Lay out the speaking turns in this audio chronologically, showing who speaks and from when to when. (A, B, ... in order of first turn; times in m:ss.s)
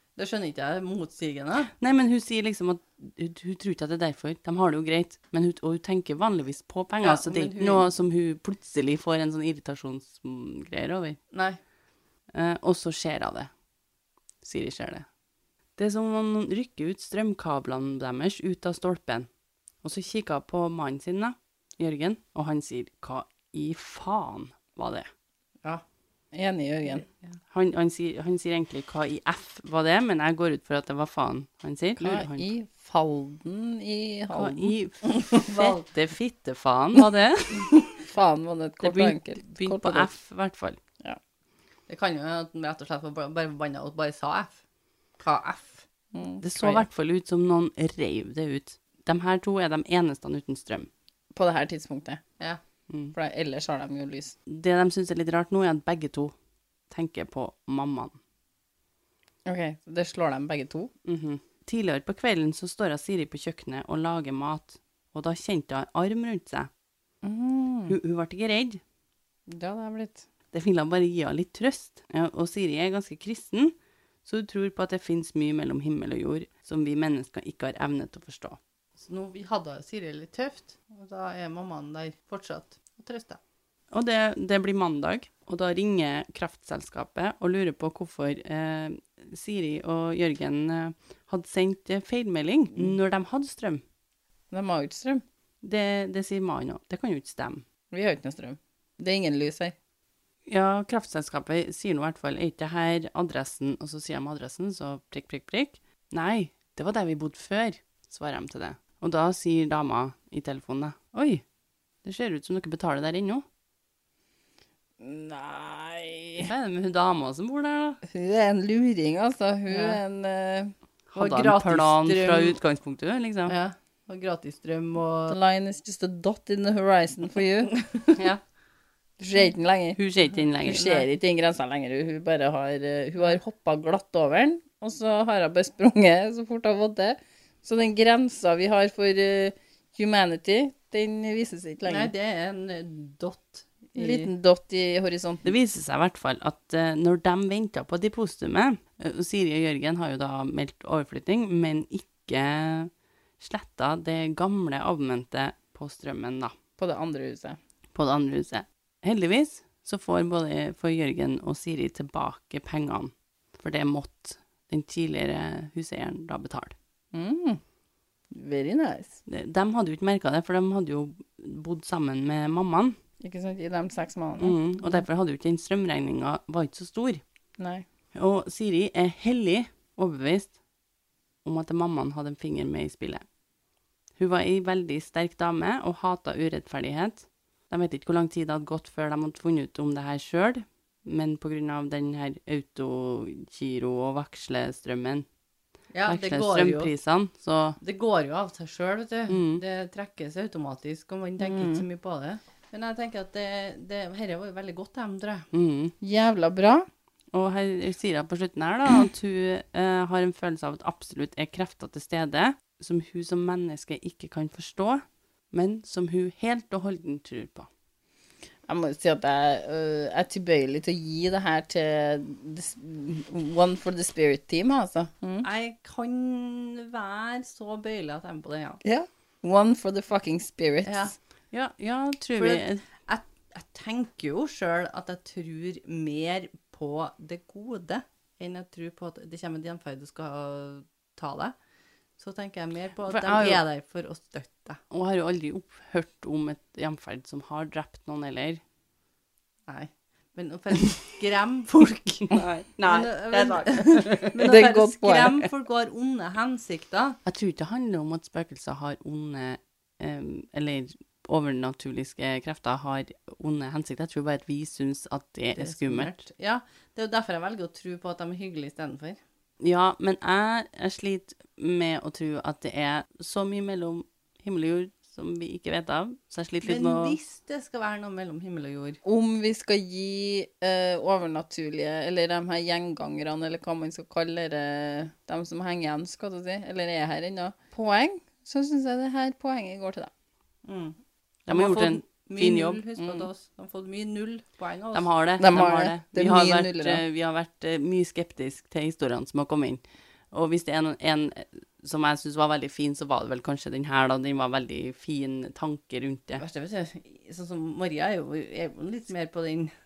0:00.2-0:01.7 A
0:01.8-0:11.2 B
0:07.0-0:07.9 A
0:11.3-0:11.6 A
0:12.3-0:13.5 B
0:14.4-0:15.0 B
0:15.8-0:19.3 B
0:19.8-0:25.1 B
0:26.3-0:27.0 C
0:26.9-0:27.2 A
0:27.5-0:32.5 B
0:32.0-0:34.7 C
0:34.3-0:37.8 B
0:35.0-0:35.8 A
0:37.9-0:40.1 C
0:38.8-0:40.8 B
0:41.9-0:44.6 A
0:45.2-0:45.8 A
0:46.1-0:46.8 C
0:46.4-0:50.9 B
0:51.3-0:52.2 C
0:52.9-0:53.1 B
0:53.1-0:54.3 C
0:54.5-0:56.3 B
0:56.9-0:58.2 B
0:59.4-1:00.9 C
1:01.0-1:06.7 B
1:07.2-1:08.0 C
1:07.9-1:08.8 B
1:09.5-1:10.2 C
1:10.5-1:13.7 B
1:14.2-1:18.6 B
1:19.0-1:23.4 A
1:23.9-1:33.8 B
1:34.5-1:35.2 C
1:35.6-1:37.6 B
1:37.9-1:39.7 C
1:40.5-1:51.4 B
1:52.0-1:53.4 B
1:55.0-1:56.5 C
1:56.4-1:58.0 B
1:58.0-2:00.7 C
1:59.7-2:00.0 A
2:01.1-2:03.5 B
2:01.2-2:02.6 A
2:03.5-2:05.4 A
2:05.3-2:08.2 C
2:09.2-2:10.0 C
2:10.0-2:10.9 B
2:10.6-2:22.1 C
2:10.7-2:11.0 A
2:21.8-2:24.3 A
2:24.0-2:25.5 C
2:25.4-2:36.5 B
2:36.8-2:37.6 C
2:37.9-2:46.7 B
2:47.1-2:47.6 C
2:48.3-2:49.2 C
2:49.3-2:53.0 B
2:53.2-2:54.6 C
2:54.4-2:57.2 B
2:57.6-2:57.8 C
2:58.2-3:00.6 B
3:01.4-3:03.2 B
3:04.2-3:15.2 B
3:15.9-3:16.9 A
3:16.1-3:17.8 B
3:17.8-3:25.5 A
3:19.3-3:19.6 B
3:21.4-3:21.8 C
3:25.5-3:25.9 B
3:26.0-3:26.8 C
3:27.3-3:37.7 B
3:38.7-3:45.5 C
3:45.4-3:48.8 A
3:48.8-3:51.1 C
3:50.8-3:51.1 A
3:51.5-3:52.8 B
3:52.4-4:01.5 A
4:02.2-4:04.8 A
4:03.1-4:03.6 B
4:04.9-4:08.6 B
4:09.7-4:17.2 A
4:12.3-4:14.4 B
4:14.4-4:15.5 C
4:17.2-4:26.1 B
4:25.5-4:29.2 A
4:29.6-4:37.2 B
4:36.6-4:39.0 A
4:39.0-4:50.1 C
4:50.6-4:51.0 A
4:51.5-4:52.8 B
4:51.5-4:55.1 A
4:53.0-4:53.3 C
4:54.9-5:06.4 B
4:55.4-4:57.0 C
5:06.4-5:09.7 A